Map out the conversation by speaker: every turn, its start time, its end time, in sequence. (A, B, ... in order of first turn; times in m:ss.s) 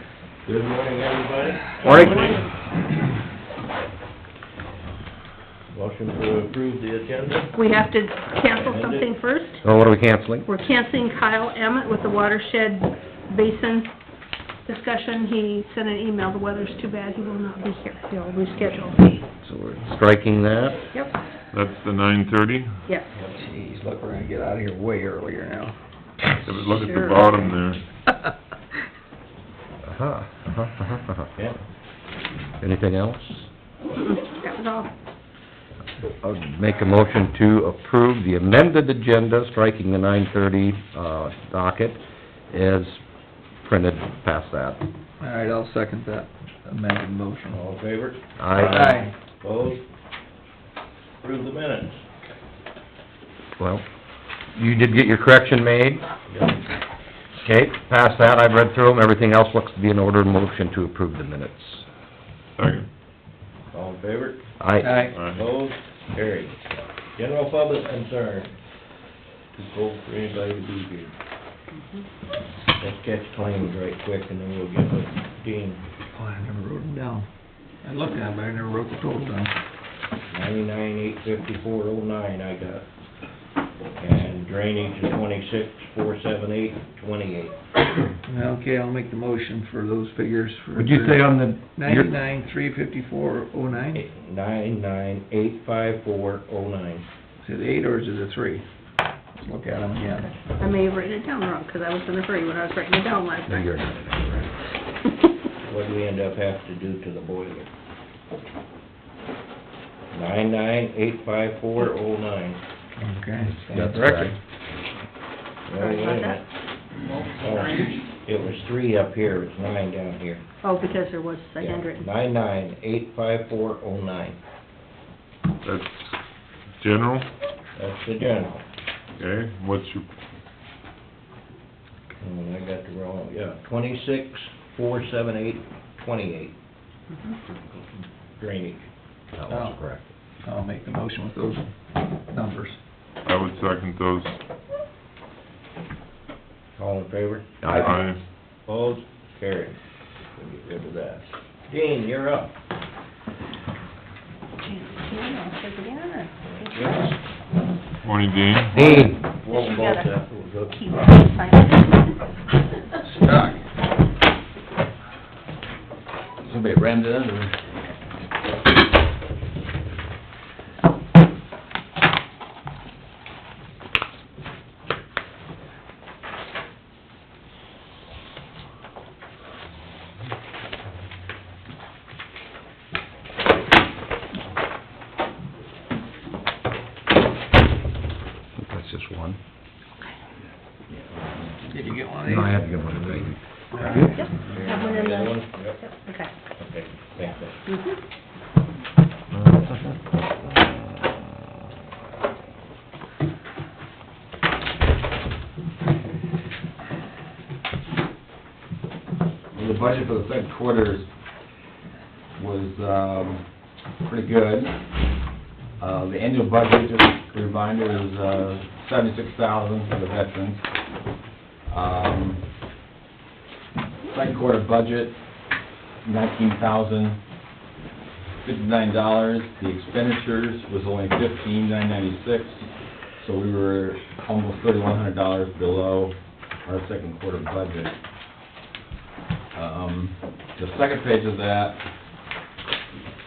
0:00.4-0:01.7 A
0:01.8-0:02.5 B
0:01.8-0:02.4 C
0:05.7-0:07.5 A
0:07.5-0:09.6 B
0:08.5-0:09.1 A
0:09.6-0:10.5 C
0:10.4-0:13.9 B
0:14.7-0:19.0 B
0:19.4-0:20.8 C
0:21.5-0:22.8 D
0:23.4-0:25.8 E
0:26.5-0:27.8 D
0:26.7-0:27.5 B
0:29.8-0:31.3 C
0:32.6-0:33.5 C
0:34.0-0:34.9 B
0:36.1-0:43.0 C
0:43.6-0:44.8 C
0:45.2-0:47.6 E
0:47.5-0:49.8 A
0:48.4-0:49.0 C
0:48.6-0:49.1 E
0:51.2-0:52.0 A
0:53.6-0:53.8 C
0:54.6-0:56.0 C
0:56.3-0:56.6 A
0:57.4-1:01.8 C
1:02.6-1:02.9 D
1:03.7-1:04.4 A
1:04.6-1:05.1 C
1:04.8-1:05.2 E
1:05.1-1:05.5 D
1:05.3-1:06.6 A
1:07.2-1:08.5 A
1:09.6-1:11.1 A
1:12.8-1:15.8 A
1:16.1-1:17.3 E
1:17.8-1:19.5 E
1:20.3-1:22.8 A
1:24.0-1:27.6 A
1:28.2-1:34.0 E
1:30.8-1:32.1 C
1:33.9-1:37.1 A
1:37.4-1:38.6 E
1:39.4-1:40.3 E
1:40.1-1:43.9 B
1:43.5-1:44.4 C
1:45.6-1:47.7 A
1:50.1-1:52.6 A
1:53.0-1:54.4 E
1:53.4-1:54.3 C
1:55.7-1:56.4 A
1:55.8-1:56.4 B
1:57.4-2:00.4 A
2:00.6-2:02.1 B
2:01.6-2:04.4 A
2:05.6-2:06.1 D
2:06.8-2:07.3 D
2:07.8-2:08.6 A
2:09.2-2:10.1 D
2:12.2-2:16.6 A
2:17.7-2:18.9 A
2:19.3-2:20.1 C
2:19.5-2:19.8 E
2:20.4-2:21.7 E
2:22.3-2:22.8 E
2:23.2-2:24.4 D
2:26.8-2:27.7 A
2:27.6-2:28.0 C
2:27.7-2:28.2 D
2:28.7-2:29.8 A
2:30.4-2:32.5 A
2:34.6-2:37.1 B
2:36.5-2:37.1 A
2:38.0-2:38.8 D
2:38.7-2:39.2 C
2:38.7-2:40.8 A
2:39.5-2:40.1 B
2:40.7-2:42.1 B
2:43.0-2:43.6 E
2:46.4-2:47.6 F
3:08.6-3:09.4 C
3:11.7-3:12.6 E
3:12.2-3:14.2 C
3:13.7-3:14.3 E
3:14.2-3:16.3 B
3:14.4-3:15.8 A
3:16.6-3:17.6 A
3:17.7-3:18.0 B
3:19.3-3:20.0 C
3:29.5-3:31.1 F
3:32.4-3:33.4 F
3:34.0-3:34.8 F
3:35.8-3:40.7 F
3:41.7-3:42.4 F
3:44.1-3:45.2 F
3:46.0-3:47.2 F
3:48.4-3:58.0 F
3:59.5-4:01.8 F